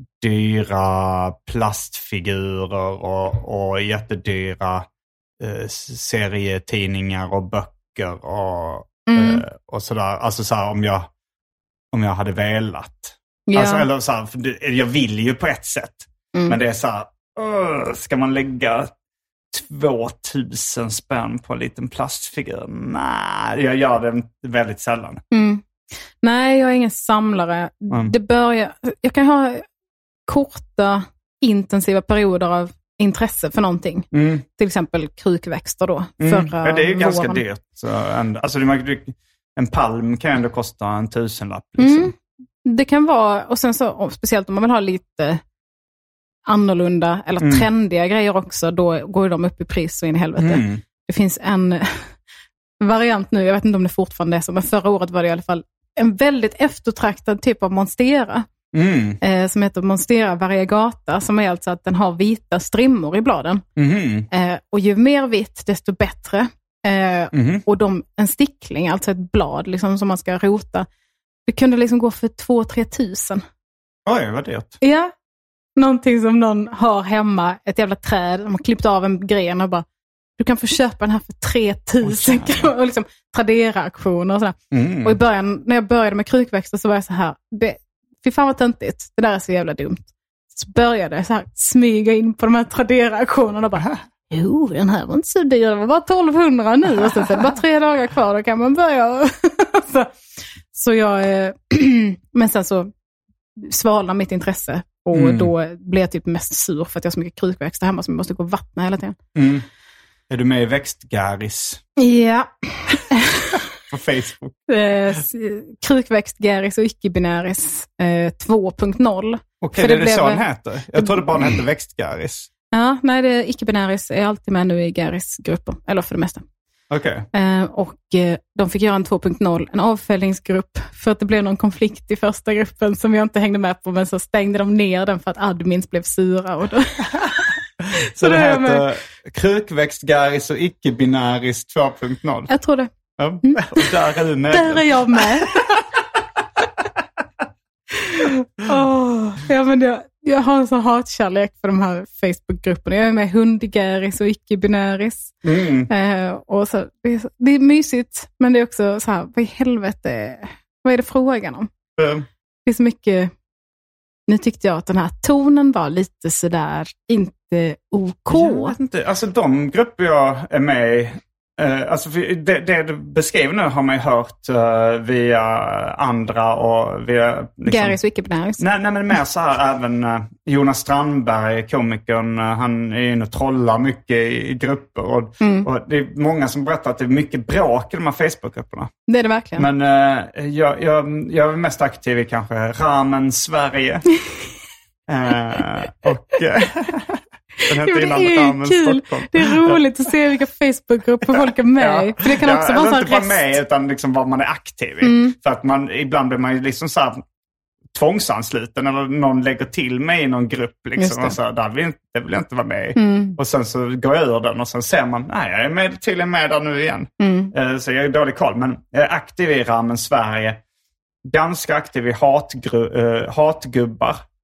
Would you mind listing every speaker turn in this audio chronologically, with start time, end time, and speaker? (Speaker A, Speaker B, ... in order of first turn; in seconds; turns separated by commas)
Speaker A: 0.2-4.8, Speaker A: 5.4-11.1, Speaker B: 9.1-9.4, Speaker A: 11.9-18.9, Speaker B: 13.5-13.9, Speaker A: 19.5-25.2, Speaker B: 25.3-25.6, Speaker B: 26.2-29.6, Speaker B: 30.3-37.4, Speaker A: 34.1-34.4, Speaker A: 36.2-42.1, Speaker B: 41.8-42.1, Speaker B: 42.6-45.4, Speaker B: 46.5-52.1, Speaker A: 47.4-47.7, Speaker A: 50.4-50.8, Speaker B: 52.8-58.5, Speaker A: 58.7-59.2, Speaker B: 59.2-63.6, Speaker A: 63.8-64.3, Speaker B: 64.3-70.9, Speaker A: 67.3-67.6, Speaker B: 71.5-73.4, Speaker A: 74.0-74.8, Speaker B: 74.8-75.1, Speaker B: 75.8-79.8, Speaker B: 80.4-100.1, Speaker A: 82.0-82.7, Speaker A: 84.7-85.2, Speaker B: 100.7-102.9, Speaker B: 103.5-109.2, Speaker A: 105.1-105.5, Speaker A: 109.3-109.7, Speaker A: 110.3-111.8, Speaker B: 112.0-113.6, Speaker A: 113.9-114.5, Speaker B: 114.7-121.5, Speaker A: 119.6-122.5, Speaker B: 122.7-126.4, Speaker A: 126.9-127.2, Speaker B: 127.3-138.9, Speaker A: 137.9-142.5, Speaker B: 142.5-142.9, Speaker A: 143.2-145.4, Speaker B: 143.4-143.9, Speaker B: 144.5-145.8, Speaker B: 148.0-155.4, Speaker A: 155.4-155.9, Speaker B: 155.9-161.7, Speaker A: 162.0-162.2, Speaker B: 162.7-163.3, Speaker B: 164.3-168.8, Speaker A: 168.3-178.0, Speaker B: 177.7-178.6, Speaker A: 178.6-188.9, Speaker B: 185.4-185.7, Speaker B: 189.1-189.7, Speaker A: 189.6-194.1, Speaker A: 195.1-199.8, Speaker B: 197.6-203.5, Speaker A: 201.2-207.2, Speaker B: 205.0-205.3, Speaker A: 207.9-220.6, Speaker B: 211.0-211.4, Speaker B: 212.9-213.4, Speaker B: 217.2-217.5, Speaker A: 221.2-224.2